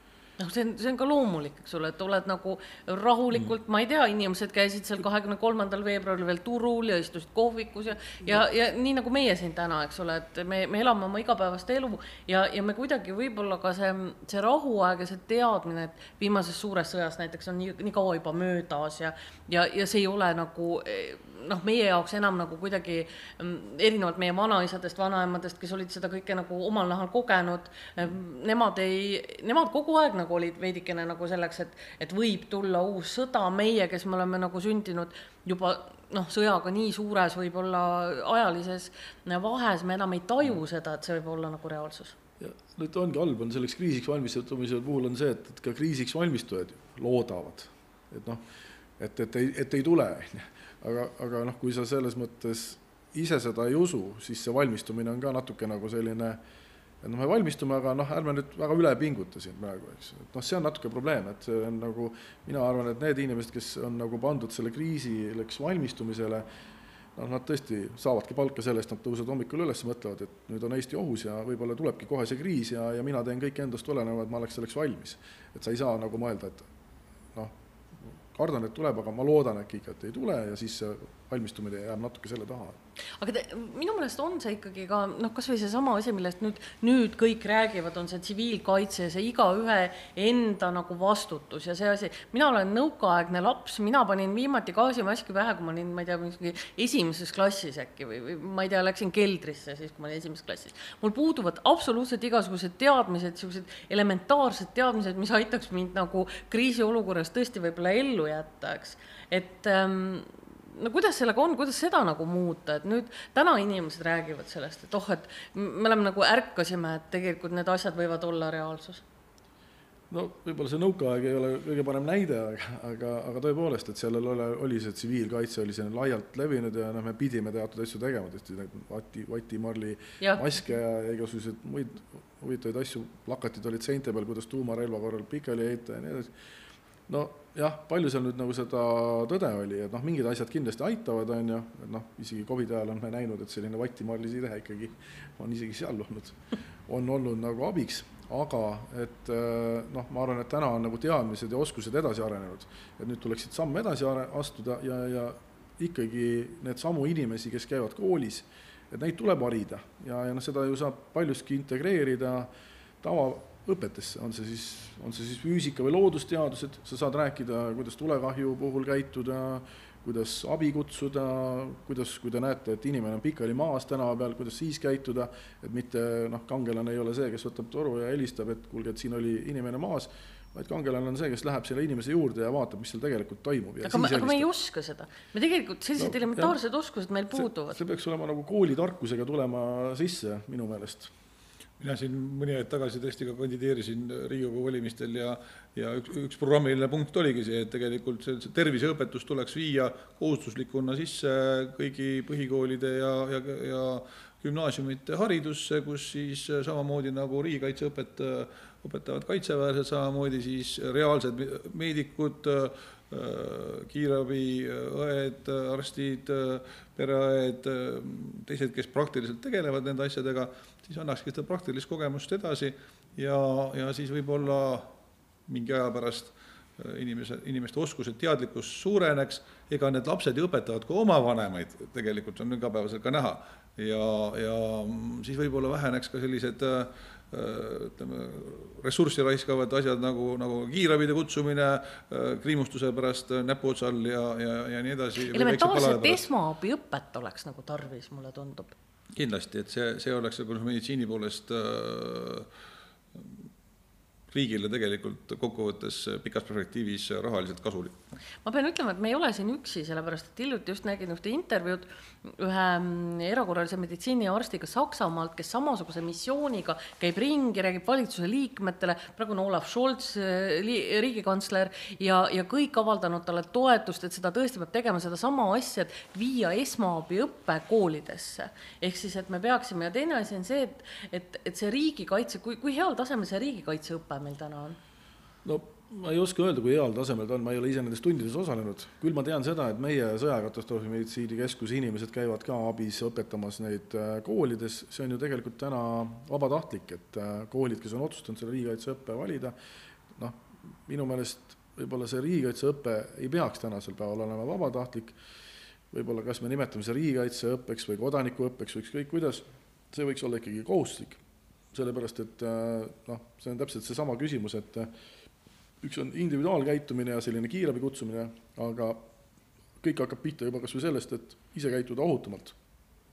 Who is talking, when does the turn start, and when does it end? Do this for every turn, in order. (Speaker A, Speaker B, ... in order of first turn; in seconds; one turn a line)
Speaker A: 0.4-42.1
Speaker B: 42.4-48.4
Speaker B: 49.0-56.4
Speaker B: 57.0-66.5
Speaker B: 67.1-76.7
Speaker B: 78.3-82.8
Speaker A: 83.2-119.0
Speaker B: 120.1-136.3
Speaker A: 130.2-130.4
Speaker B: 137.1-162.5
Speaker B: 163.0-184.5
Speaker A: 183.8-187.8
Speaker B: 186.0-186.6
Speaker B: 187.4-191.1
Speaker C: 191.8-224.9
Speaker C: 225.5-246.2
Speaker A: 245.3-248.8
Speaker C: 249.1-252.5
Speaker C: 254.3-258.0
Speaker A: 258.4-284.8
Speaker B: 285.4-299.6
Speaker B: 300.1-305.2
Speaker B: 305.9-311.2
Speaker B: 311.7-314.9
Speaker B: 315.8-319.0
Speaker B: 319.8-322.6